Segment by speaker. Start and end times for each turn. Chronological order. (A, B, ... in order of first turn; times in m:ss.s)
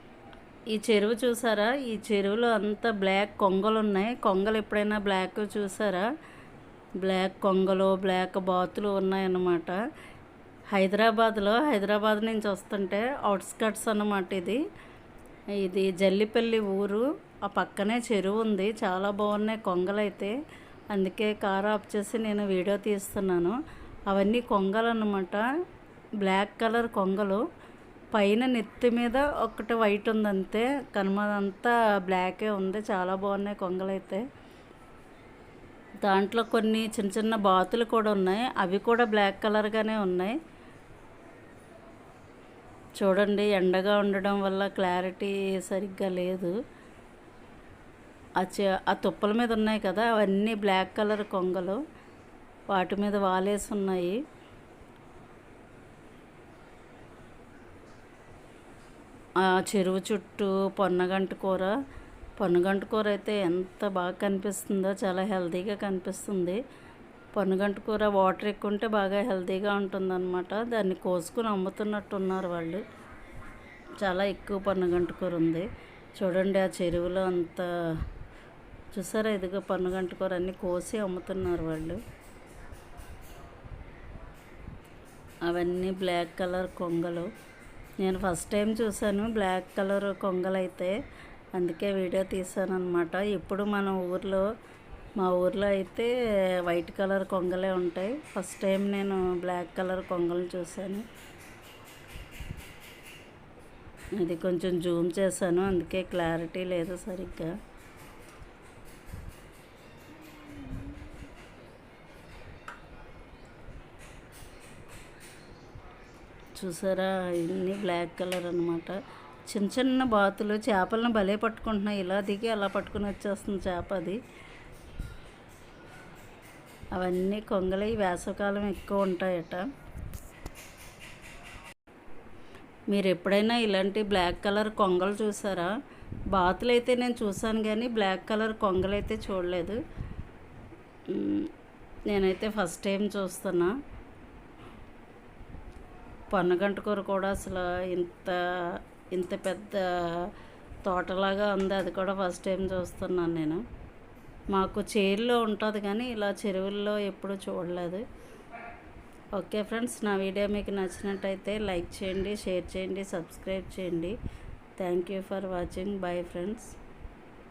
0:00.7-0:06.1 A
0:07.0-0:09.8 A
0:10.7-0:14.6 A
0:15.6-0:20.3 A
0:20.9-0:23.6 A
0:24.1-0:25.4 A
0:26.2-0:27.4 A
0:28.1-0:34.2 A
0:36.0-0:40.4 A
0:43.0-0:46.5 A
0:48.4-0:51.8 A
0:52.7-0:54.2 A
0:59.4-1:01.7 A
1:02.4-1:06.6 A
1:07.3-1:12.8 A
1:14.0-1:15.7 A
1:16.2-1:18.0 A
1:18.9-1:22.0 A
1:25.4-1:27.3 A
1:28.0-1:31.0 A
1:31.6-1:34.4 A
1:35.2-1:36.1 A
1:36.6-1:41.0 A
1:44.2-1:47.5 A
1:56.6-2:04.2 A
2:06.9-2:09.7 A
2:12.9-2:15.7 A
2:16.3-2:19.8 A
2:21.1-2:21.5 A
2:22.1-2:23.7 A
2:26.3-2:30.3 A
2:30.8-2:33.6 A
2:34.5-2:38.0 A
2:39.4-2:44.1 A
2:44.8-2:46.7 A